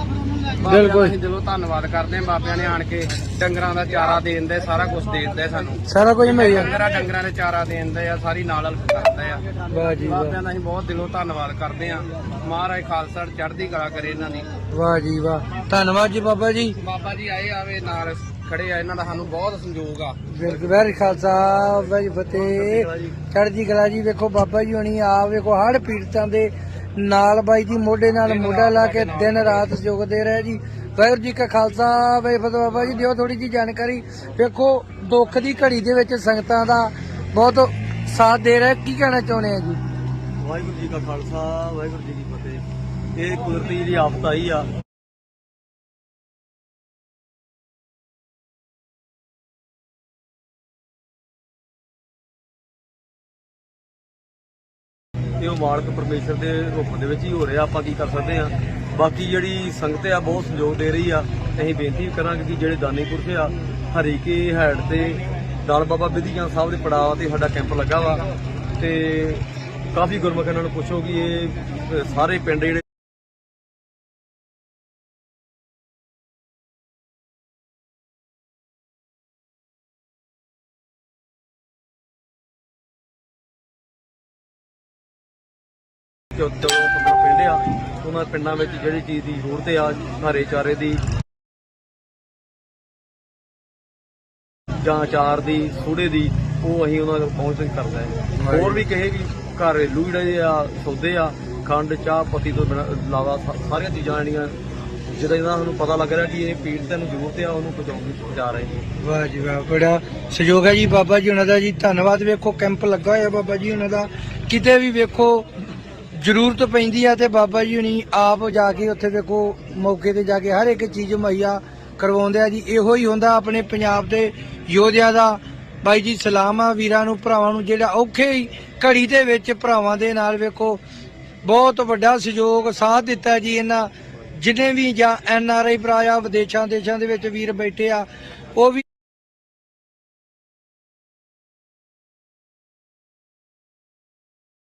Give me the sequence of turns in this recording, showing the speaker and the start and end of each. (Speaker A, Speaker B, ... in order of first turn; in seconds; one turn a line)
Speaker A: 0.6-14.5
Speaker B: 0.6-1.1
Speaker B: 5.9-6.7
Speaker B: 9.7-10.4
Speaker B: 14.7-16.7
Speaker A: 16.8-20.2
Speaker B: 20.3-39.8
Speaker C: 22.4-23.1
Speaker A: 28.2-29.6
Speaker C: 40.4-42.6
Speaker C: 43.1-44.7
Speaker C: 55.4-68.2
Speaker C: 68.8-72.8
Speaker C: 86.3-91.0
Speaker C: 94.8-104.5
Speaker B: 98.5-98.8
Speaker C: 105.1-108.8
Speaker B: 109.0-115.5
Speaker B: 116.1-130.8
Speaker B: 131.4-138.8